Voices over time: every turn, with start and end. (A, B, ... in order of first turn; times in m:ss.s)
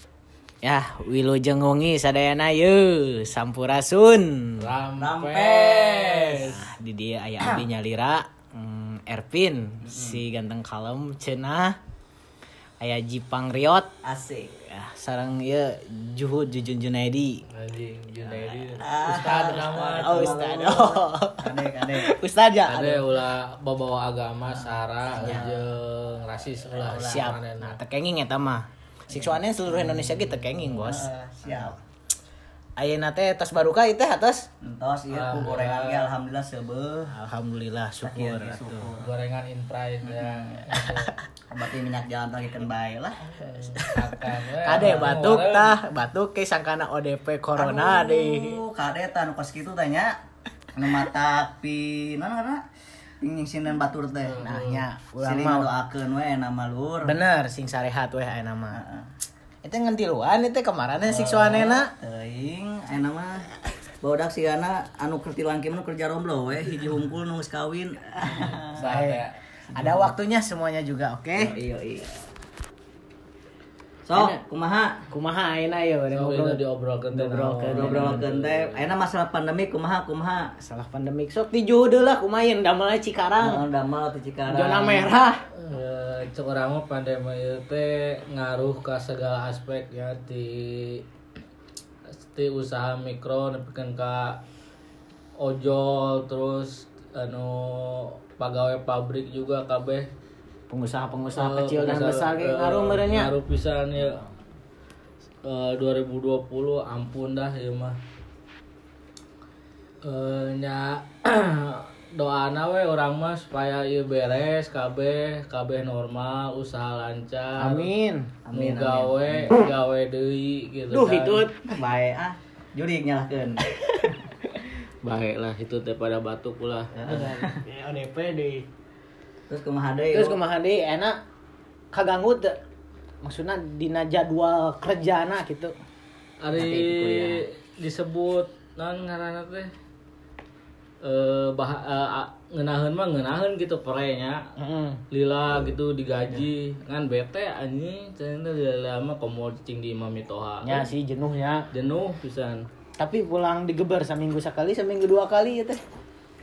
0:00.6-0:04.6 A
0:04.6-0:06.6 B
0:05.0-0:06.6 C
0:06.4-0:11.8 A
0:09.8-0:10.2 C
0:12.8-0:13.9 A
0:14.0-0:14.6 C
0:14.6-0:17.4 A
0:17.5-0:20.4 B
0:18.8-0:22.1 C
0:19.1-0:23.0 A
0:22.7-0:27.8 B
0:24.5-0:25.6 C
0:25.2-0:25.5 A
0:26.6-0:27.4 C
0:26.9-0:31.1 A
0:29.1-0:31.8 C
0:32.8-0:34.5 A
0:34.6-0:37.1 C
0:35.1-0:36.1 B
0:37.1-0:38.9 A
0:38.0-0:39.1 C
0:38.9-0:41.1 B
0:40.0-0:40.8 C
0:40.8-0:41.1 A
0:41.5-0:43.4 C
0:43.4-0:45.7 B
0:43.8-0:48.6 A
0:44.7-0:45.1 C
0:47.6-0:50.2 C
0:50.7-0:52.6 C
0:53.2-0:54.5 C
0:54.2-0:54.8 B
0:54.4-0:55.7 A
0:55.2-0:57.2 C
0:57.0-0:58.8 A
0:58.7-0:59.1 C
0:59.6-1:01.9 A
1:01.0-1:03.4 C
1:04.0-1:08.9 C
1:08.4-1:09.3 B
1:08.8-1:09.2 A
1:09.7-1:10.1 C
1:09.7-1:11.6 A
1:11.4-1:12.1 C
1:14.0-1:15.0 C
1:15.1-1:16.6 A
1:16.1-1:18.8 B
1:17.1-1:20.5 C
1:17.6-1:18.2 A
1:20.6-1:23.6 A
1:23.4-1:25.1 C
1:24.5-1:25.4 A
1:25.6-1:31.0 B
1:32.2-1:34.4 B
1:35.4-1:40.1 B
1:40.7-1:43.3 A
1:41.3-1:44.2 B
1:45.4-1:48.0 B
1:50.0-1:57.9 B
1:57.6-1:58.3 A
1:58.4-1:59.5 C
1:58.5-2:01.5 B
2:00.9-2:01.7 A
2:01.7-2:03.6 C
2:05.0-2:06.9 B
2:06.9-2:07.6 C
2:07.0-2:08.6 A
2:09.5-2:10.4 C
2:10.1-2:11.2 A
2:11.9-2:12.6 A
2:13.2-2:15.7 A
2:16.4-2:19.7 B
2:16.6-2:17.4 A
2:21.0-2:24.5 B
2:24.6-2:25.0 A
2:25.1-2:30.9 B
2:30.6-2:31.7 A
2:31.7-2:32.6 B
2:33.0-2:35.8 A